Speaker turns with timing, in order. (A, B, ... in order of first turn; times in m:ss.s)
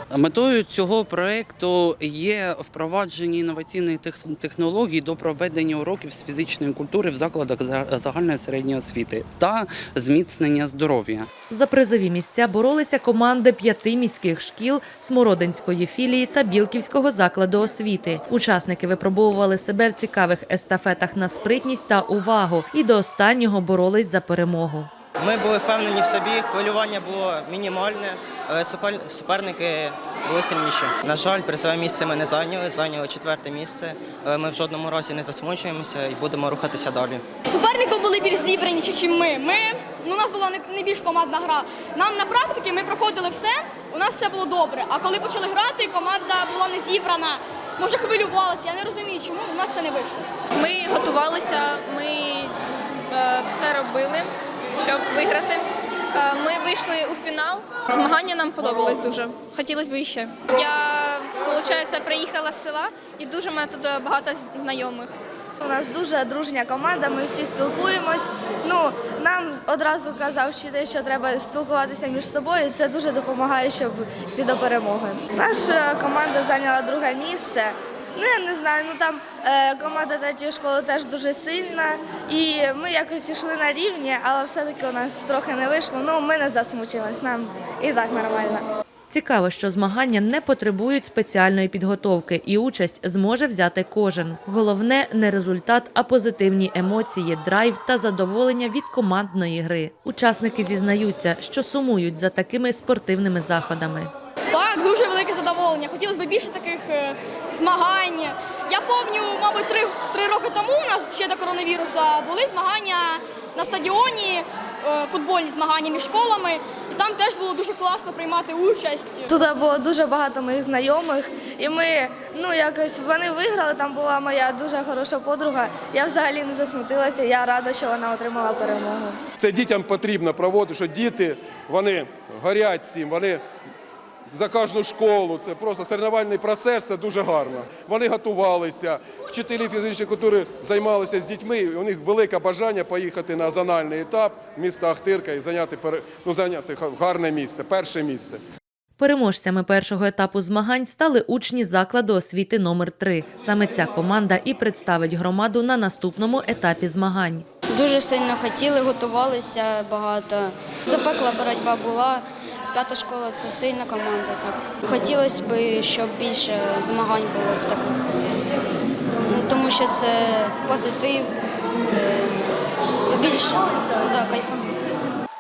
0:00.1-0:11.3 A
0:11.5-0:24.9 B
0:25.2-0:37.2 C
0:37.4-0:50.2 D
0:50.6-0:52.5 E
0:53.1-1:05.1 E
1:05.6-1:28.6 F
1:29.1-1:44.1 B
1:44.5-1:59.3 D
1:59.3-2:09.2 F
2:09.4-2:13.4 G
2:14.3-2:28.4 G
2:29.0-2:37.5 B
2:37.7-2:48.2 H
2:49.2-2:51.3 H
2:51.9-2:52.4 H
2:53.1-2:54.7 H